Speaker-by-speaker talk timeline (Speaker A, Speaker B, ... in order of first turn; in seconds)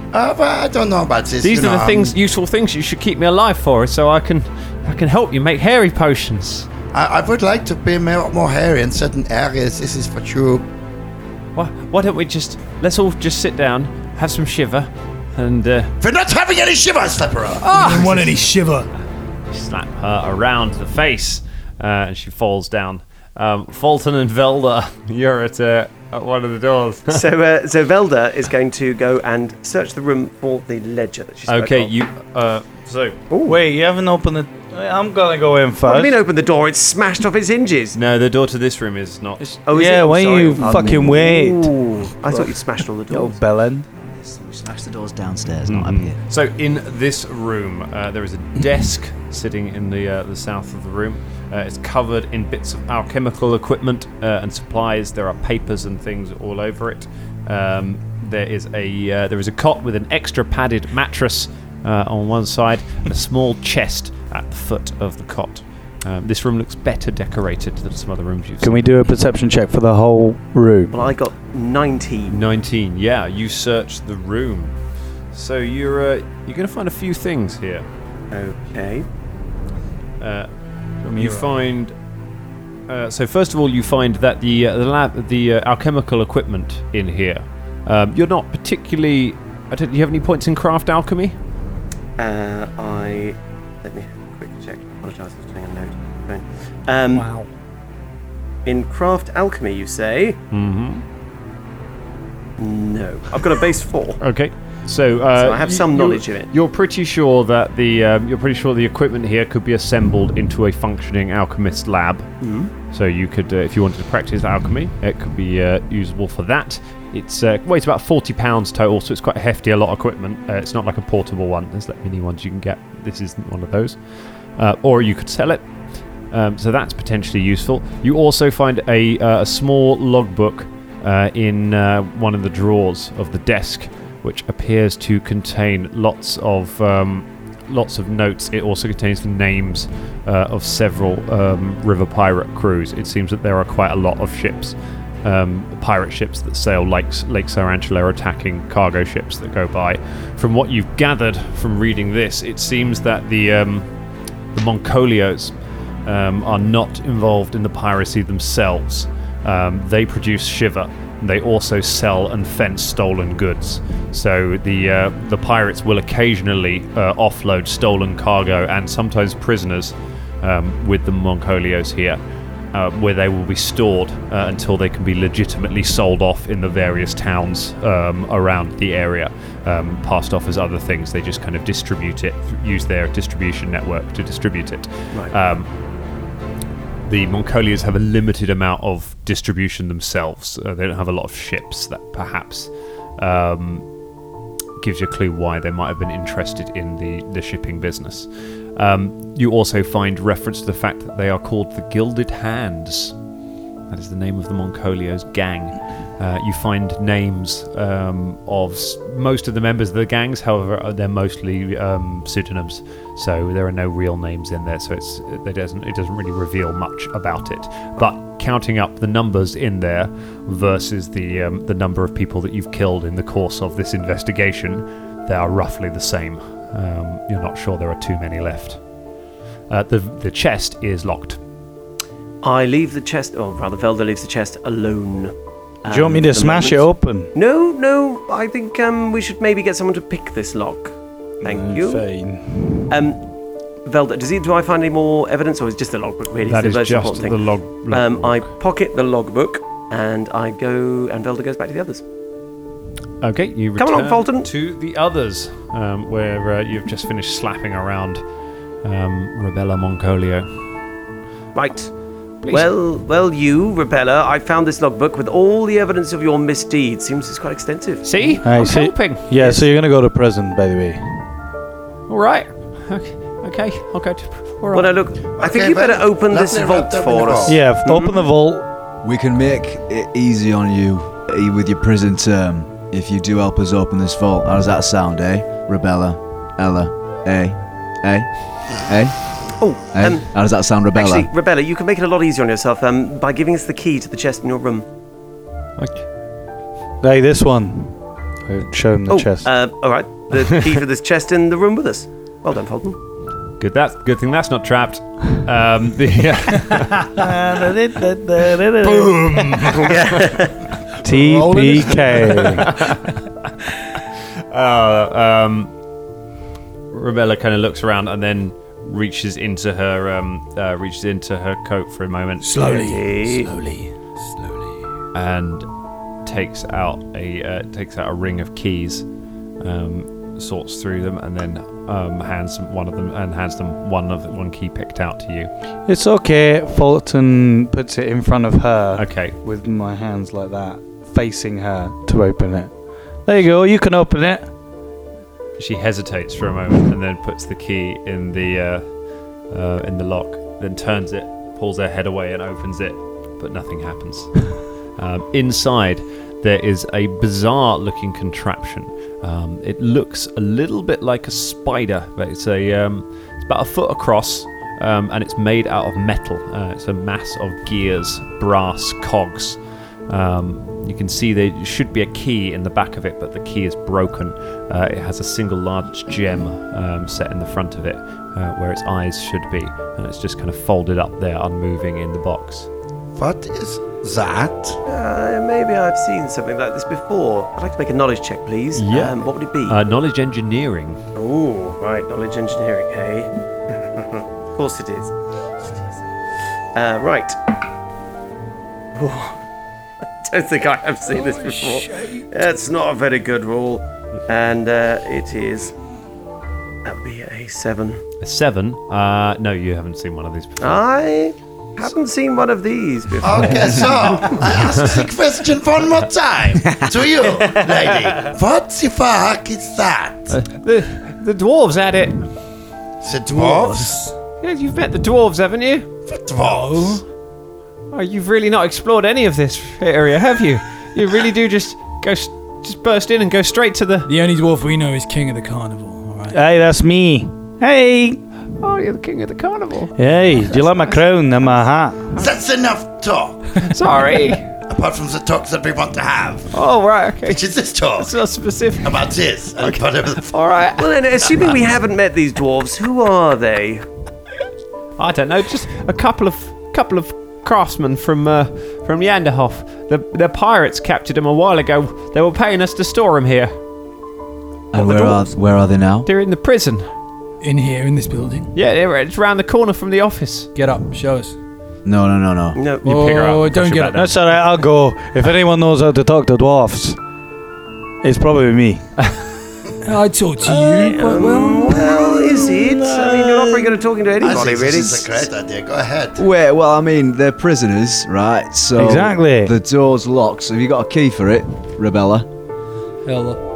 Speaker A: 0.1-2.2, 6.9-10.7, 16.0-18.3, 275.3-277.6, 383.2-384.8, 413.2-420.4, 423.0-424.0, 426.1-427.0, 442.1-443.7, 444.7-446.5, 447.2-448.1, 448.8-450.3, 484.2-486.2
Speaker B: 1.4-6.7, 11.6-15.9, 17.6-18.1, 19.5-27.2, 31.5-33.2, 38.0-39.5, 45.7-68.8, 72.3-74.8, 75.3-77.8, 80.2-80.5, 81.0-81.9, 82.9-91.3, 100.5-101.0, 104.2-124.0, 124.6-125.7, 126.3-153.9, 154.5-155.5, 156.1-172.2, 172.7-185.7, 187.1-193.9, 194.8-203.2, 203.9-228.8, 229.7-231.4, 246.5-248.4, 253.2-258.2, 258.8-260.5, 262.4-262.7, 268.0-269.6, 272.1-274.9, 295.8-296.1, 303.6-307.2, 312.6-313.1, 314.0-315.7, 316.9-322.6, 325.1-325.7, 326.2-329.1, 329.6-335.5, 339.0-339.4, 345.6-348.9, 349.5-382.7, 388.8-391.0, 408.2-410.8, 414.5-415.0, 420.3-422.2, 424.4-425.9, 427.9-434.1, 438.6-440.9, 443.6-444.5, 446.5-451.6, 455.0-463.6, 464.8-465.2, 466.1-466.9, 468.6-470.5, 472.8-474.1
Speaker C: 17.6-18.9, 97.1-97.5, 308.8-310.0, 311.0-312.9, 322.4-324.7, 401.1-402.3, 423.3-424.1, 426.4-427.0, 434.1-436.4, 467.4-468.6, 470.6-471.4, 472.8-474.1, 479.8-482.5, 493.1-493.4
Speaker D: 27.1-31.9, 33.3-33.6, 35.9-38.0, 39.6-43.4, 70.9-72.4, 78.3-79.1, 92.2-97.3, 98.7-100.4, 102.6-104.2, 105.3-106.5, 112.4-112.7, 232.4-242.1, 242.9-243.3, 243.8-252.0, 253.8-254.5, 261.6-261.9, 262.5-268.4, 274.7-278.2, 289.6-294.9, 299.1-303.0, 309.7-310.7, 322.6-323.5, 384.9-389.8, 391.2-395.1, 396.8-397.4, 398.9-399.4, 400.2-405.7, 406.8-408.0, 410.6-414.4, 450.8-453.9, 472.6-472.9, 480.8-485.3
Speaker E: 33.4-36.2, 39.4-41.7, 42.3-42.5, 43.1-43.9, 68.6-71.0, 235.9-237.3, 241.4-242.9, 268.4-271.3, 277.5-278.6, 297.0-299.5, 307.2-309.5, 311.0-312.7, 335.9-342.7, 343.2-344.5, 436.3-438.2, 440.0-442.1, 473.9-477.0, 478.0-478.9, 480.5-483.7, 488.8-489.5
Speaker F: 44.0-46.2, 279.0-291.3, 464.7-466.1, 471.9-472.6, 486.2-492.3